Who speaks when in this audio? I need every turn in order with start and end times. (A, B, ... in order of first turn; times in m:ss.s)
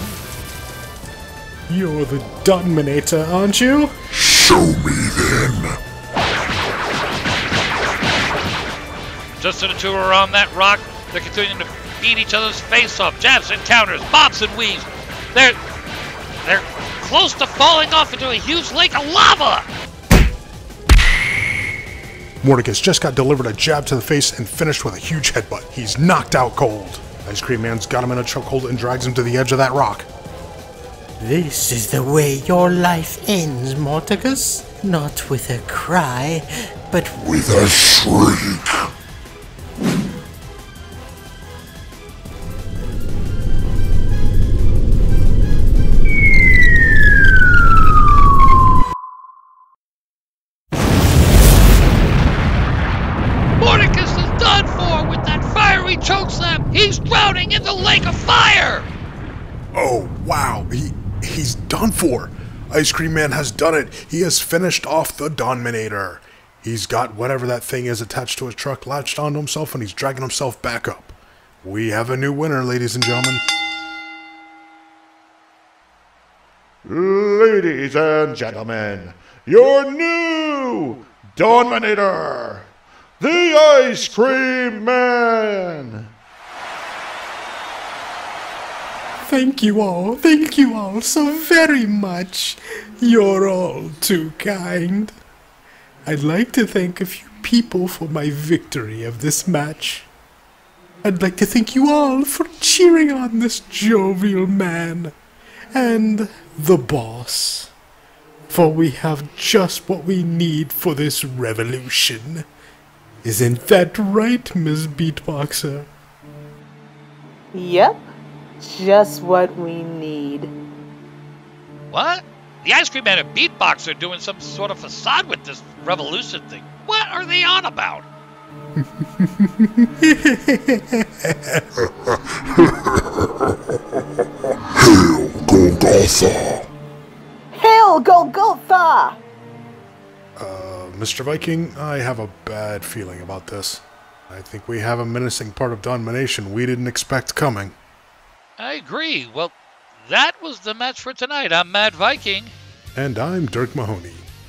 0:01.7-0:03.9 A
0:04.1-0:05.8 B
0:09.4-0:15.6 C
0:16.4-0:19.7 C
0:22.4-0:30.1 D
0:31.2-0:37.5 A
0:37.2-0:38.8 B
0:53.6-0:58.9 C
0:59.7-1:13.4 D
1:16.8-1:26.1 E
1:29.2-1:35.2 A
1:36.0-1:40.1 A
1:41.0-1:45.1 A
1:45.7-1:47.7 A
1:48.5-1:52.4 A
1:53.2-1:55.9 A
1:57.5-1:58.0 F
1:58.6-2:00.5 F
2:01.9-2:08.0 C
2:09.2-2:11.6 A
2:14.8-2:16.7 B
2:17.5-2:19.2 F
2:20.4-2:27.8 D
2:28.6-2:32.5 C
2:32.9-2:34.3 D